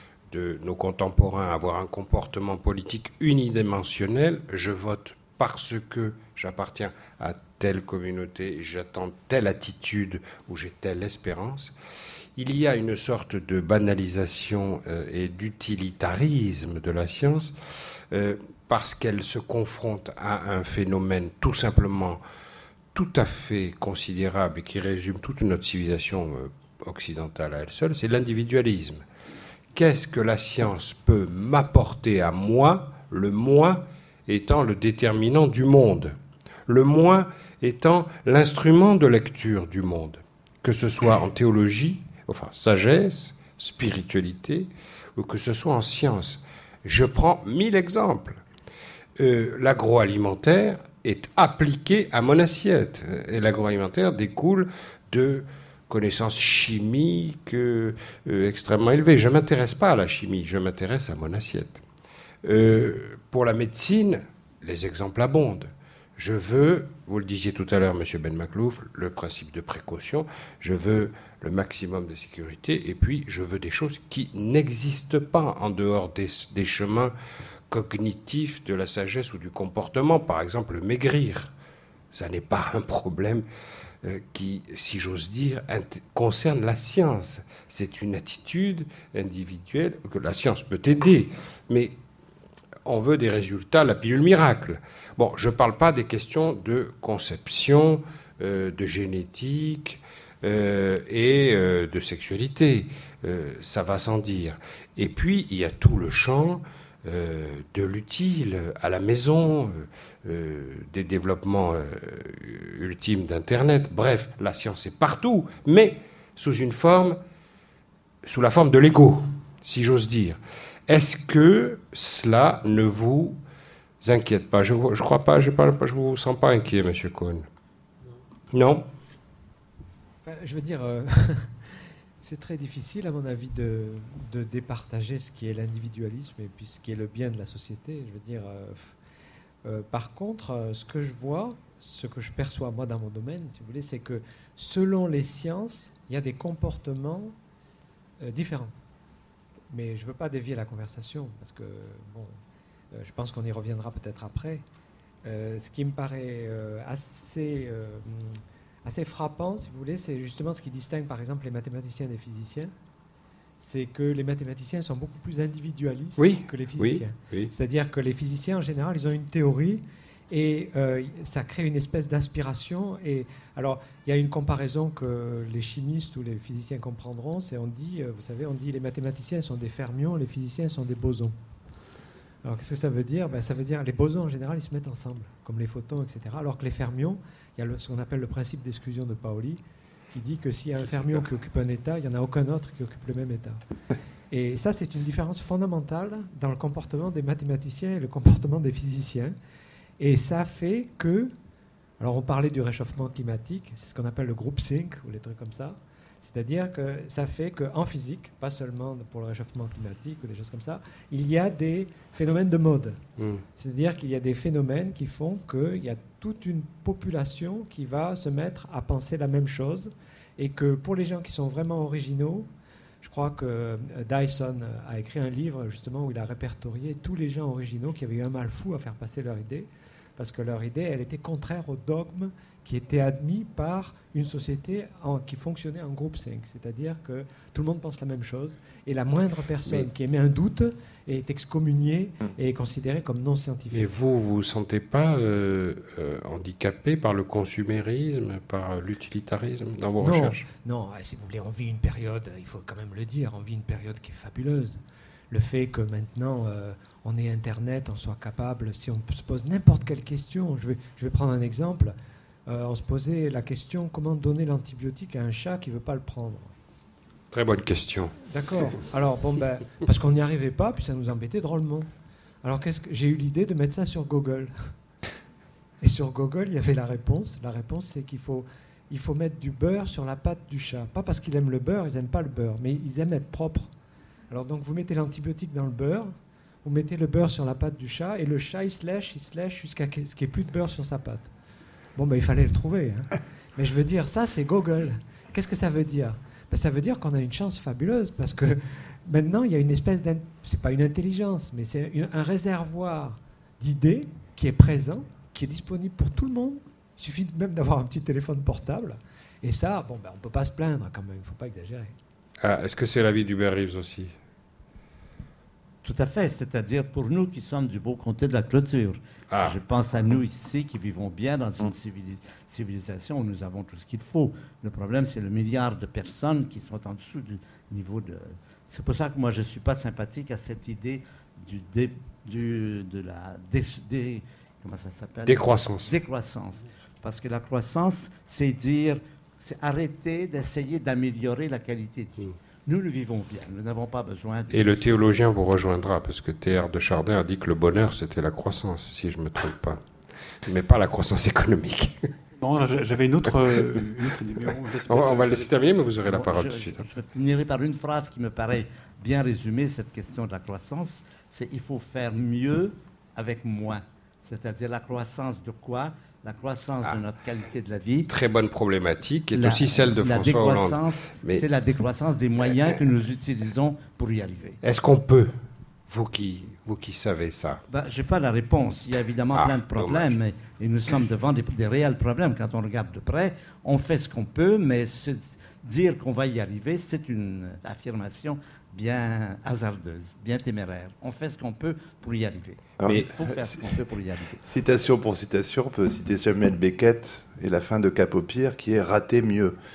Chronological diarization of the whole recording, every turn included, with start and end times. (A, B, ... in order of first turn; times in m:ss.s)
0:00.3-0:11.7 A
0:12.4-0:17.5 A
0:18.1-0:22.2 A
0:22.9-0:29.0 A
0:29.7-0:36.1 A
0:36.7-0:48.4 A
0:49.2-1:01.8 A
1:02.4-1:17.1 A
1:17.7-1:21.5 A
1:22.1-1:23.4 A
1:24.0-1:31.9 A
1:32.8-1:57.2 A
1:58.2-2:03.4 A
2:04.0-2:07.4 A
2:08.5-2:08.8 A
2:10.2-2:19.0 B
2:19.6-2:27.3 B
2:28.2-2:28.7 B
2:29.7-2:32.3 B
2:32.9-2:34.6 B
2:35.2-2:42.7 B
2:43.6-3:01.3 B
2:46.2-2:47.5 A
3:02.4-3:09.6 B
3:10.1-3:13.6 B
3:14.3-3:19.3 B
3:20.0-3:21.3 B
3:22.0-3:33.0 B
3:33.2-3:33.4 A
3:33.6-3:42.5 B
3:43.0-4:03.9 B
4:03.7-4:10.4 A
4:10.0-4:14.8 B
4:15.3-4:21.9 B
4:22.5-4:26.5 B
4:27.3-4:28.2 A
4:28.2-4:31.9 B
4:32.4-4:34.5 B
4:35.8-4:43.7 B
4:44.3-4:51.3 B
4:52.0-5:11.9 B
5:12.4-5:14.1 A
5:15.8-5:44.6 C
5:19.3-5:19.6 A
5:35.2-5:35.9 A
5:44.5-5:49.8 A
5:50.4-5:52.1 A
5:52.4-5:55.5 D
5:54.9-5:56.9 A
5:56.0-6:08.1 C
6:08.1-6:11.4 A
6:09.3-6:14.6 C
6:14.6-6:15.3 A
6:15.9-6:17.6 A
6:17.7-6:34.4 C
6:19.3-6:20.1 A
6:32.8-6:33.8 E
6:34.4-6:39.5 E